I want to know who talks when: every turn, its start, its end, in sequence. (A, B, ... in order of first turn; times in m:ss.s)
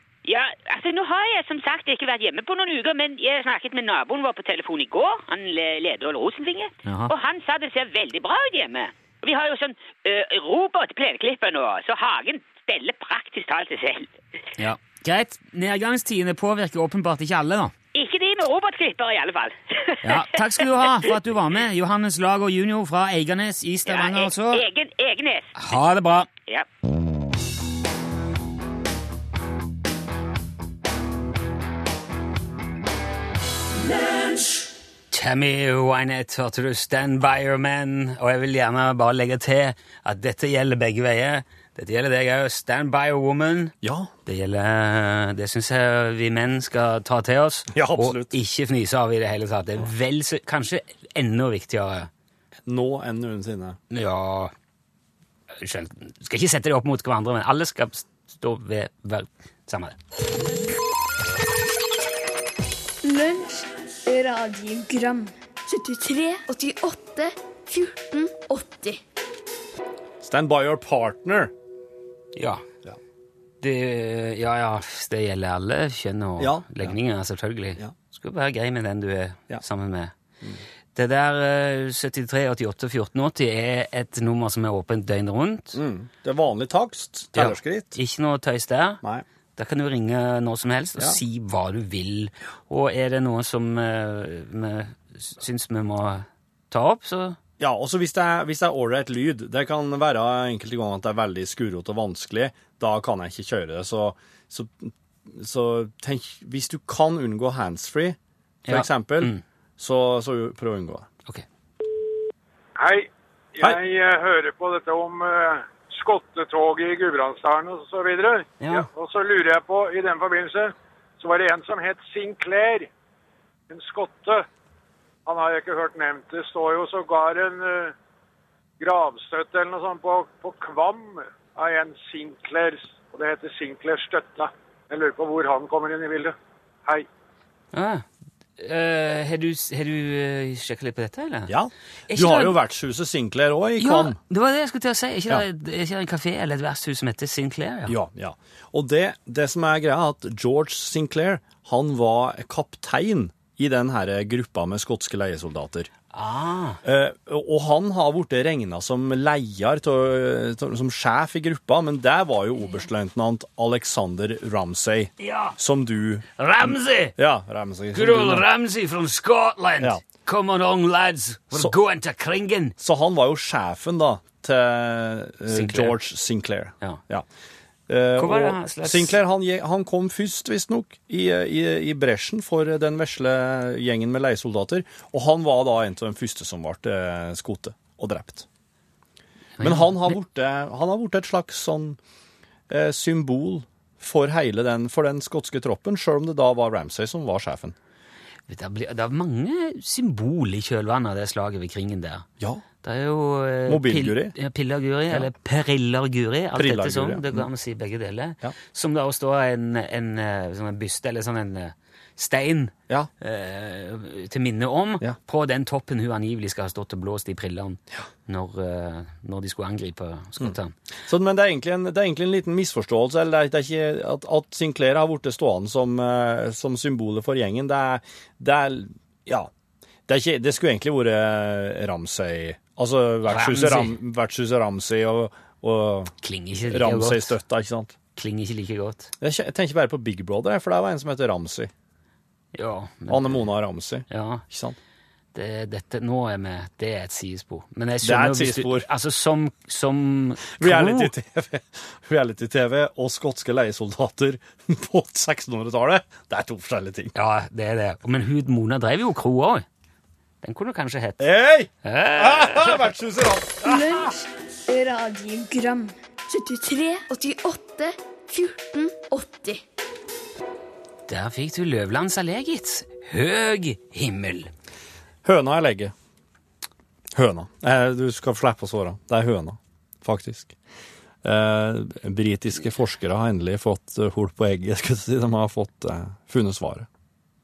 0:00.2-0:14.1 A
0:06.8-0:07.1 B
0:14.6-0:17.7 B
0:17.9-0:21.1 A
0:20.0-0:24.6 B
0:23.8-0:25.7 A
0:25.6-0:26.3 B
0:35.1-0:52.1 B
0:43.8-0:44.1 C
0:47.7-0:48.4 C
0:52.6-0:53.8 C
0:53.9-0:54.5 B
0:55.6-1:00.0 B
1:03.0-1:09.0 D
1:10.2-1:11.5 C
1:12.3-1:12.6 B
1:13.6-1:20.1 B
1:16.4-1:17.0 C
1:20.9-1:25.8 B
1:25.7-1:28.0 C
1:27.3-1:29.0 B
1:29.6-1:37.4 B
1:37.6-1:51.1 C
1:48.7-1:49.4 B
1:52.8-2:02.9 E
1:58.6-1:58.9 B
2:03.7-2:04.4 E
2:05.2-2:07.9 E
2:08.8-2:17.0 E
2:17.7-2:18.0 B
2:18.6-2:21.5 B
2:21.5-2:24.2 C
2:22.1-2:22.6 B
2:23.8-2:27.9 B
2:27.9-2:35.9 C
2:36.1-2:36.8 B
2:36.8-2:46.2 C
2:45.2-2:45.5 B
2:46.4-2:47.1 B
2:47.2-2:48.4 C
2:47.9-2:52.7 B
2:52.8-2:57.2 C
2:55.5-2:56.0 B
2:57.9-3:08.4 C
2:58.2-2:59.2 B
3:09.6-3:10.2 B
3:09.6-3:12.0 C
3:12.7-3:17.8 C
3:18.5-3:22.2 B
3:22.8-3:40.7 B
3:23.7-3:24.3 C
3:26.5-3:27.5 C
3:41.1-3:49.5 C
3:50.1-3:56.1 C
3:53.3-3:54.0 B
3:56.2-3:57.3 B
3:56.6-3:58.0 C
3:58.2-3:59.1 B
3:59.2-4:01.7 C
4:02.5-4:03.4 B
4:03.1-4:04.8 C
4:04.1-4:04.4 B
4:05.3-4:11.1 B
4:08.0-4:08.9 C
4:10.6-4:17.1 C
4:17.1-4:19.6 B
4:20.4-4:21.3 B
4:21.2-4:24.1 C
4:21.8-4:22.8 B
4:23.6-4:29.6 D
4:31.1-4:34.5 B
4:35.2-4:35.9 C
4:37.1-4:40.5 C
4:41.2-4:46.9 C